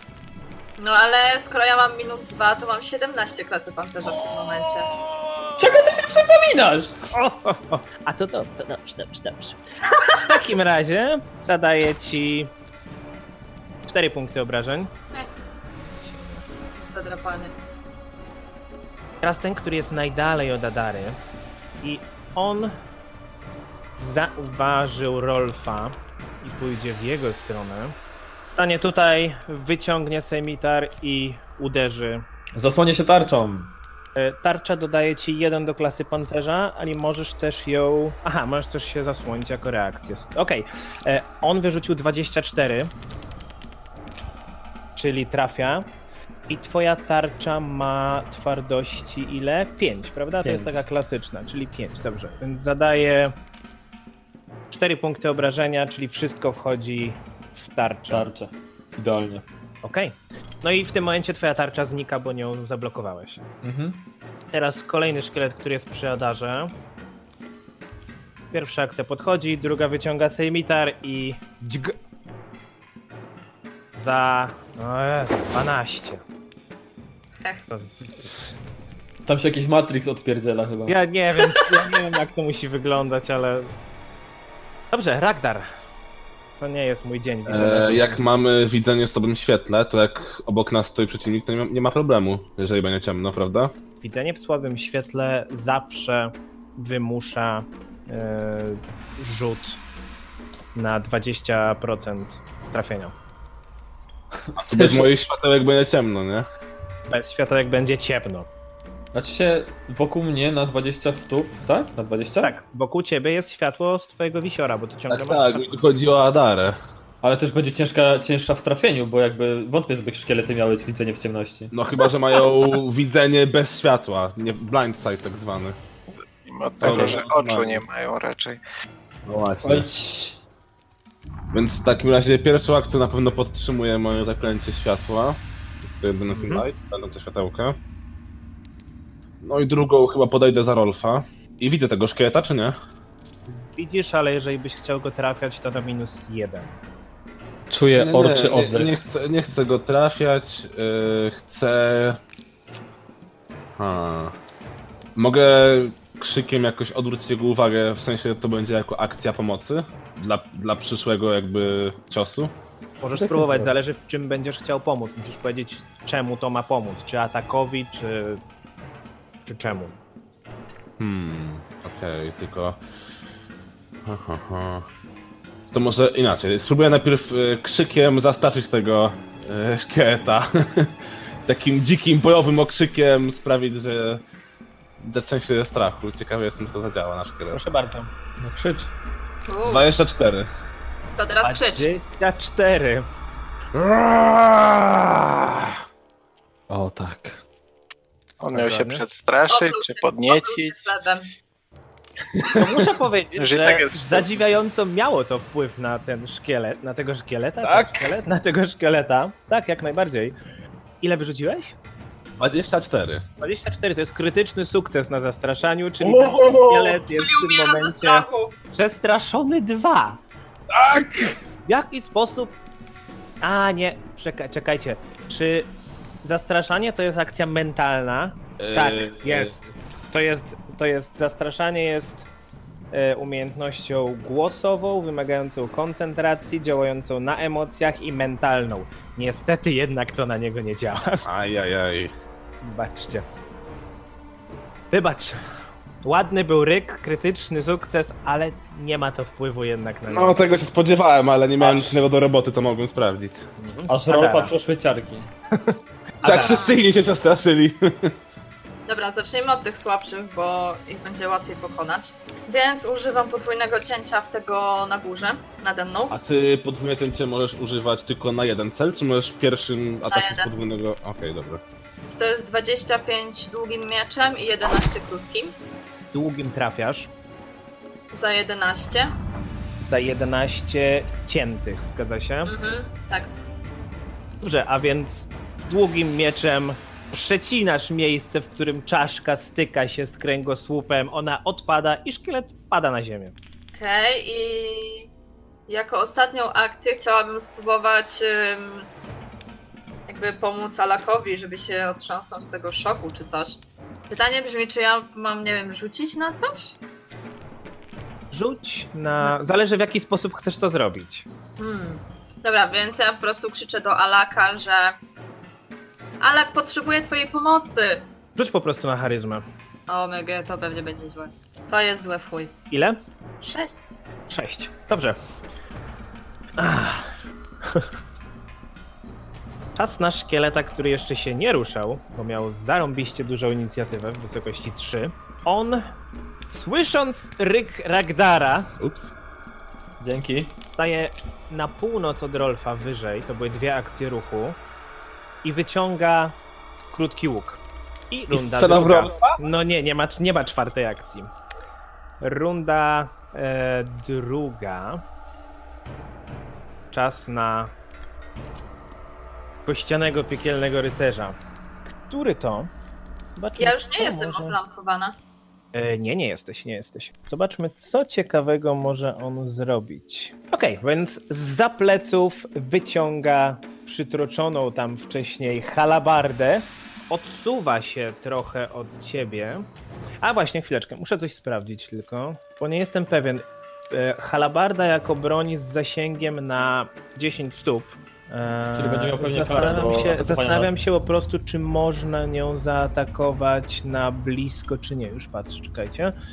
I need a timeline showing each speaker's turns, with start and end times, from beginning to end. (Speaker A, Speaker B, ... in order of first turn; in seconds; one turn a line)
Speaker A: 0.8-4.9
Speaker B: 4.1-5.8
Speaker C: 5.6-7.0
Speaker B: 7.1-12.5
Speaker A: 9.9-10.2
Speaker B: 13.9-14.9
Speaker B: 16.0-16.5
Speaker A: 16.7-17.5
Speaker B: 19.2-21.2
Speaker B: 21.8-22.7
Speaker B: 24.0-32.2
Speaker C: 32.5-33.7
Speaker B: 34.1-42.9
Speaker B: 45.0-45.9
Speaker B: 46.5-53.4
Speaker C: 50.4-50.8
Speaker B: 54.7-58.3
Speaker C: 58.1-59.4
Speaker B: 59.8-63.4
Speaker C: 63.6-64.0
Speaker B: 64.5-66.7
Speaker B: 68.5-72.0
Speaker B: 73.9-76.2
Speaker B: 77.7-78.4
Speaker C: 79.2-81.0
Speaker B: 80.9-83.7
Speaker B: 84.9-85.7
Speaker B: 86.6-88.2
Speaker D: 87.5-93.7
Speaker B: 94.0-99.8
Speaker B: 100.7-103.1
Speaker C: 104.4-105.1
Speaker D: 104.6-106.5
Speaker B: 107.1-108.5
Speaker C: 109.1-112.5
Speaker B: 112.4-115.8
Speaker D: 115.1-116.8
Speaker C: 117.2-121.7
Speaker D: 121.7-125.8
Speaker E: 126.4-128.6
Speaker D: 126.8-127.8
Speaker D: 129.2-129.9
Speaker C: 129.6-130.4
Speaker D: 131.5-137.8
Speaker B: 136.3-136.6
Speaker D: 139.4-142.7
Speaker B: 143.8-146.7
Speaker C: 147.7-149.0
Speaker D: 147.9-152.2
Speaker D: 153.8-154.3
Speaker D: 155.2-162.5
Speaker B: 163.0-168.4
Speaker C: 163.1-163.7
Speaker B: 169.4-170.0
Speaker D: 171.0-173.2
Speaker D: 174.0-174.9
Speaker D: 175.7-184.2
Speaker D: 185.0-187.6
Speaker B: 187.5-188.1
Speaker C: 188.4-188.9
Speaker A: 189.5-189.9
Speaker D: 189.6-190.5
Speaker A: 191.2-191.9
Speaker B: 191.4-193.1
Speaker D: 193.7-195.8
Speaker C: 196.7-197.4
Speaker E: 198.4-200.8
Speaker B: 198.5-199.0
Speaker A: 199.5-201.3
Speaker D: 202.3-202.6
Speaker B: 202.5-210.3
Speaker E: 203.4-204.3
Speaker D: 207.6-208.1
Speaker B: 211.0-211.8
Speaker D: 212.4-213.2
Speaker B: 213.4-220.2
Speaker D: 216.0-217.0
Speaker A: 217.1-218.5
Speaker D: 220.7-221.4
Speaker B: 221.7-222.6
Speaker B: 223.4-225.7
Speaker B: 226.2-232.3
Speaker D: 228.6-229.6
Speaker B: 232.9-241.2
Speaker D: 241.2-242.1
Speaker B: 242.6-243.2
Speaker B: 244.9-245.4
Speaker B: 246.0-250.4
Speaker D: 250.1-253.5
Speaker B: 251.6-251.9
Speaker B: 253.6-254.5
Speaker C: 253.9-255.3
Speaker B: 255.6-256.6
Speaker A: 256.2-256.8
Speaker D: 256.2-258.1
Speaker A: 258.9-266.1
Speaker D: 266.1-271.6
Speaker A: 270.1-270.5
Speaker A: 272.1-275.6
Speaker B: 276.1-277.1
Speaker A: 278.1-279.1
Speaker B: 279.8-282.5
Speaker A: 282.4-283.3
Speaker B: 284.4-293.4
Speaker A: 293.7-295.1
Speaker A: 295.7-298.9
Speaker A: 300.1-306.8
Speaker B: 308.3-311.3
Speaker A: 311.6-315.0
Speaker A: 316.2-318.1
Speaker B: 318.4-319.4
Speaker A: 319.9-322.5
Speaker B: 322.7-323.0
Speaker A: 323.4-323.8
Speaker B: 324.3-325.1
Speaker B: 326.6-327.1
Speaker B: 327.6-327.9
Speaker B: 329.8-335.9
Speaker B: 336.5-338.7
Speaker D: 338.8-339.1
Speaker C: 340.0-340.6
Speaker B: 340.7-344.6
Speaker B: 345.4-346.4
Speaker B: 346.9-351.3
Speaker D: 348.3-349.4
Speaker B: 352.2-355.0
Speaker B: 356.9-357.7
Speaker B: 359.6-362.7
Speaker B: 363.4-364.6
Speaker A: 363.6-365.2
Speaker B: 365.7-379.6
Speaker B: 380.2-396.1
Speaker C: 388.7-390.7